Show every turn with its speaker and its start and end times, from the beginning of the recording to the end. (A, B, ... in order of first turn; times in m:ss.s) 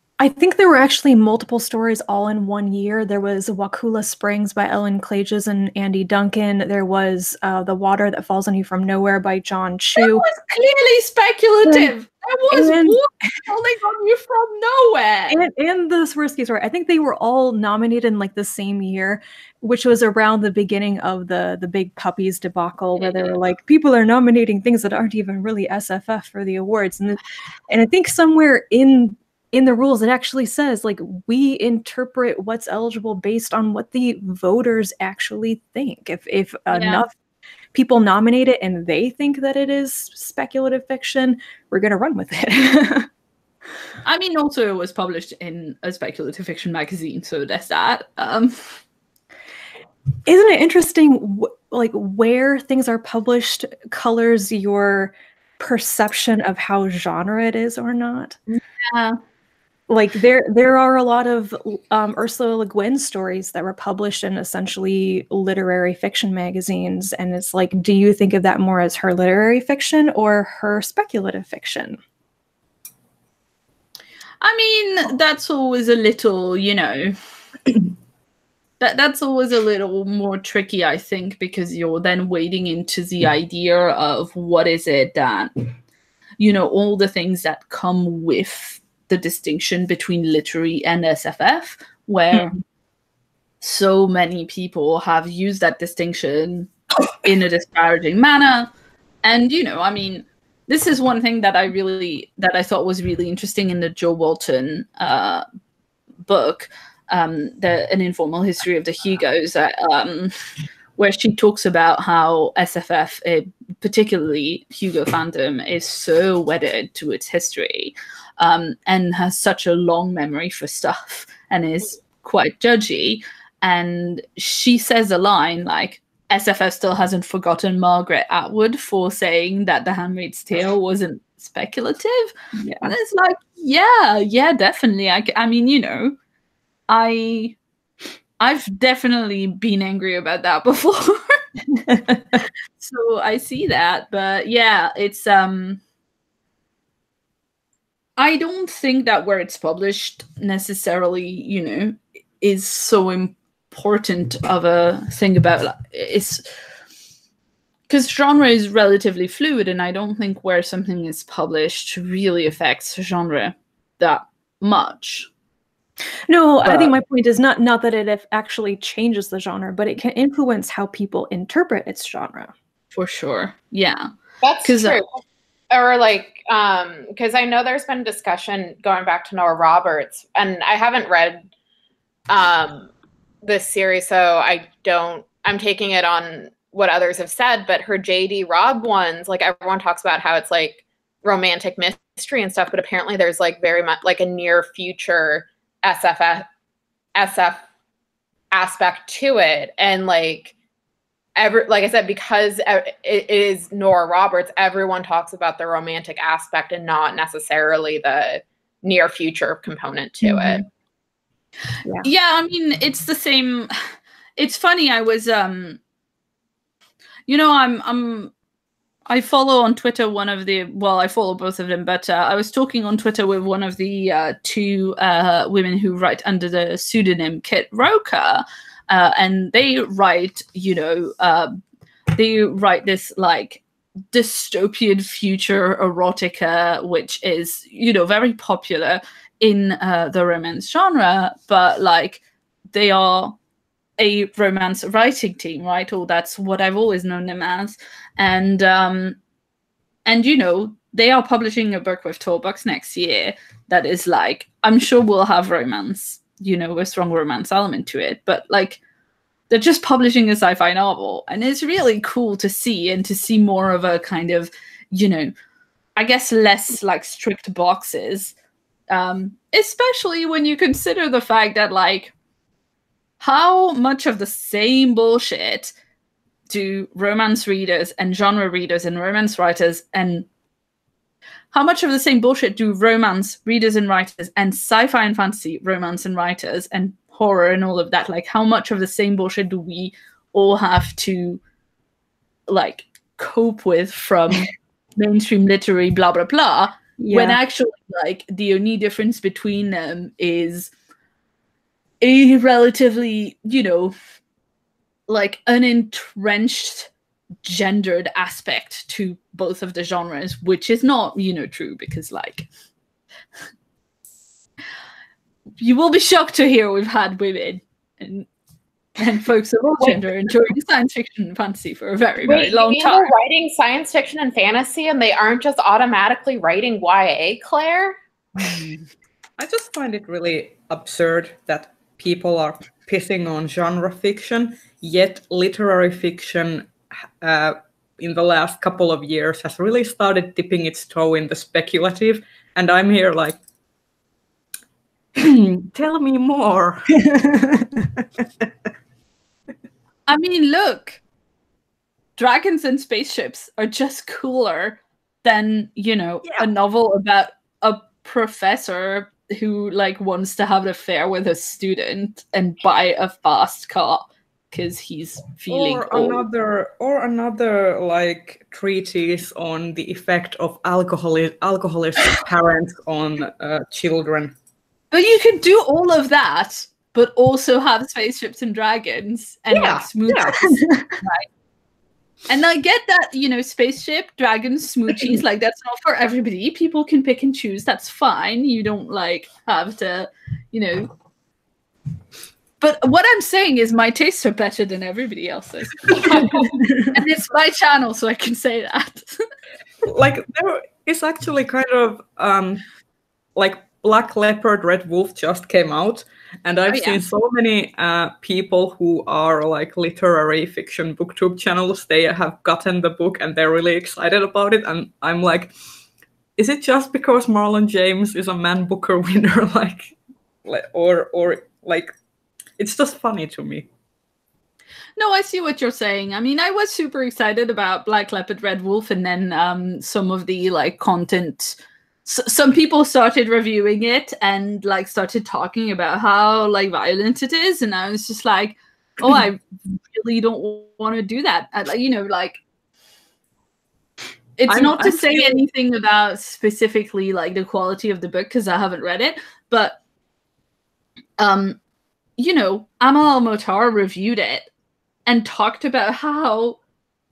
0:00.2-0:10.2 A
0:10.0-0:15.4 B
0:11.6-0:11.9 A
0:12.5-0:13.0 A
0:15.3-0:37.1 A
0:23.0-0:23.4 B
0:36.7-0:37.0 B
0:37.7-0:43.1 A
0:44.0-0:48.7 B
0:50.2-0:58.4 A
0:58.5-0:59.2 B
0:59.9-1:12.0 A
1:14.4-1:17.2 B
1:18.8-1:25.7 B
1:26.4-1:32.6 B
1:33.6-1:38.7 B
1:39.2-1:45.4 B
1:46.2-1:50.3 B
1:51.0-2:16.2 B
2:12.6-2:12.9 A
2:16.9-2:17.6 B
2:18.4-2:21.2 B
2:21.7-2:22.2 A
2:22.8-2:25.8 B
2:28.2-2:36.5 B
2:37.9-2:45.3 B
2:46.3-2:52.5 A
2:52.9-2:54.1 B
2:54.4-2:55.1 C
2:54.6-2:55.0 B
2:55.7-3:01.4 C
3:02.3-3:02.9 C
3:03.4-3:16.4 C
3:17.1-3:17.6 C
3:18.5-3:20.5 C
3:21.4-3:30.6 C
3:32.0-3:33.7 B
3:34.4-3:35.8 B
3:37.3-3:38.3 B
3:39.1-3:51.5 B
3:52.1-4:02.2 B
4:02.7-4:03.4 B
4:04.0-4:09.2 B
4:10.0-4:18.8 B
4:19.5-4:25.3 B
4:26.0-4:28.3 B
4:28.9-4:32.1 B
4:33.2-4:35.7 B
4:36.5-4:40.2 B
4:41.5-4:51.4 B
4:52.5-5:00.7 B
4:57.0-4:57.4 A
5:02.0-5:03.9 B
5:05.1-5:06.9 B
5:07.4-5:12.5 B
5:15.6-5:18.3 B
5:19.0-5:23.1 B
5:22.2-5:28.0 C
5:29.4-5:43.4 D
5:45.1-5:47.0 D
5:47.0-5:48.0 A
5:50.1-5:51.0 B
5:52.2-6:06.2 B
6:05.5-6:14.3 D
6:14.9-6:21.2 B
6:19.5-6:20.4 D
6:20.3-6:21.0 A
6:22.3-6:30.9 B
6:32.6-6:39.2 B
6:36.4-6:36.9 A
6:39.8-6:42.6 D
6:43.4-6:55.5 D
6:46.7-6:47.0 B
6:56.4-6:59.9 D
7:00.4-7:01.9 D
7:02.6-7:03.7 D
7:05.0-7:22.4 B
7:24.4-7:29.8 B
7:24.5-7:25.4 D
7:31.2-7:31.6 B
7:32.2-7:34.5 B
7:35.0-7:36.6 B